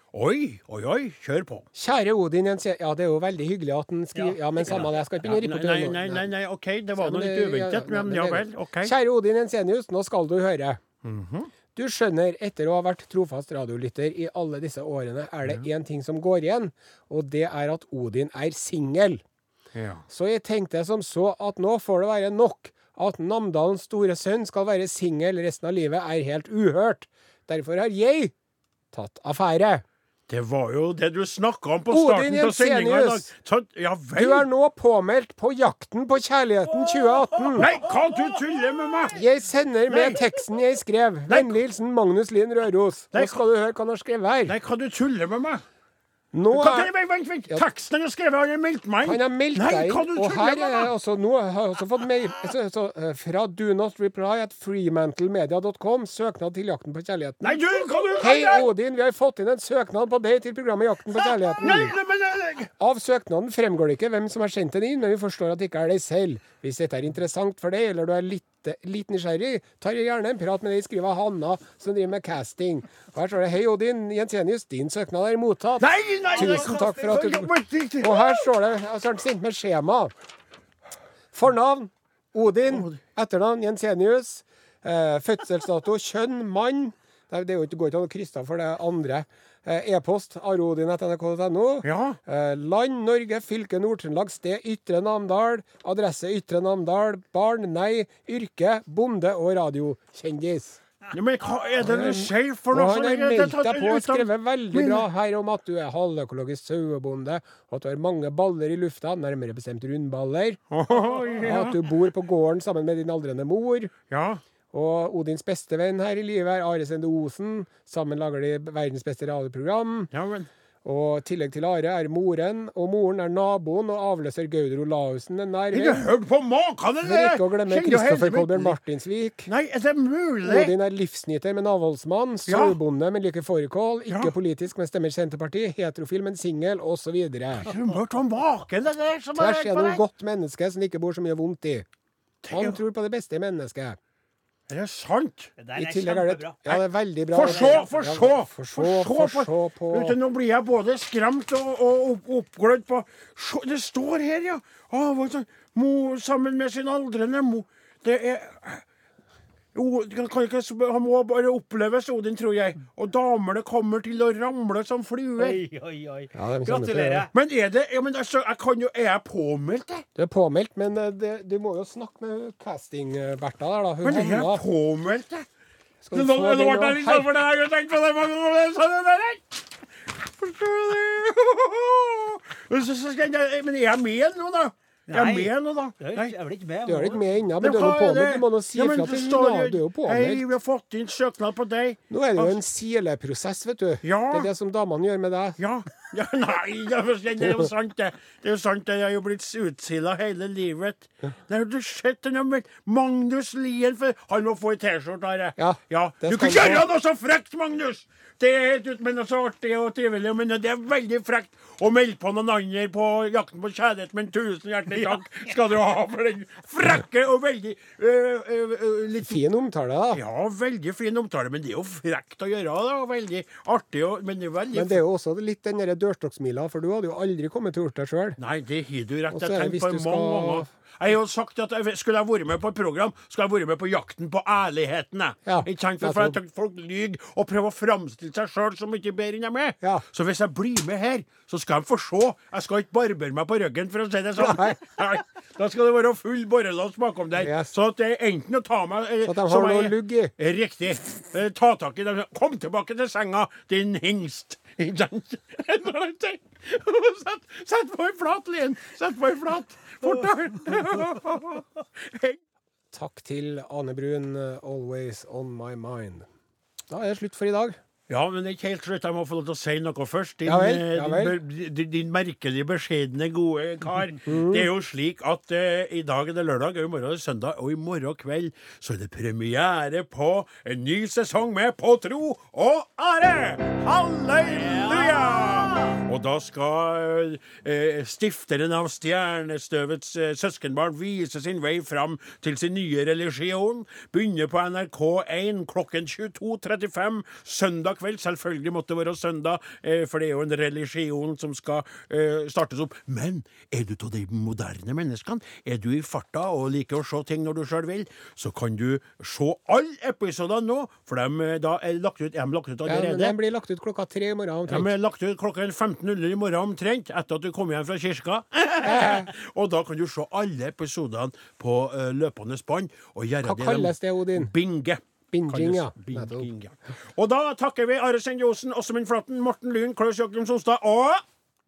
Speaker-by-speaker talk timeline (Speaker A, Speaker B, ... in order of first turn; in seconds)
Speaker A: 0.1-1.7, 4.6-8.9, 11.0-11.5, 19.7-20.0, 30.3-34.5, 36.7-39.2, 39.9-40.3, 41.3-41.6, 43.1-43.4, 44.5-45.6, 46.5-50.9, 57.4-58.7, 61.1-62.7, 75.8-78.4, 82.7-83.0, 91.8-92.2, 101.1-105.1, 110.7-111.9, 114.1-114.4, 120.1-120.5, 125.7-128.8, 129.4-130.8, 132.5-132.8, 134.1-134.3, 137.6-140.0, 142.4-142.8, 144.7-145.5, 146.7-158.8, 159.7-165.6, 167.3-170.1, 174.0-175.5, 176.1-186.3, 187.6-192.6, 194.0-194.5, 195.6-219.4, 220.1-225.0, 228.4-262.4, 268.1-313.4, 314.7-331.2
Speaker B: 1.7-6.3, 7.0-10.8, 11.7-19.2, 20.1-28.3, 28.9-29.8, 31.9-33.3, 34.1-37.7, 39.1-44.5, 46.3-46.9, 49.0-57.6, 58.2-61.9, 62.8-80.1, 81.3-100.8, 101.8-113.9, 114.7-120.1, 120.8-126.1, 127.0-129.5, 130.4-137.7, 139.3-141.9, 142.5-144.0, 145.8-150.2, 166.3-167.2, 170.2-174.6, 176.0-177.3, 186.8-190.4, 192.1-195.6, 205.6-206.8, 219.2-220.2, 224.7-228.4, 229.3-230.7, 235.4-236.4, 244.4-244.8, 247.4-247.7, 249.2-250.3, 262.9-266.3, 266.9-267.8, 270.4-271.4, 274.3-274.7, 312.9-314.9, 318.8-319.3, 323.4-324.5, 325.3-326.5
Speaker C: 76.3-77.2, 145.6-146.7, 147.4-147.9, 165.4-167.3, 185.1-187.4, 284.6-285.9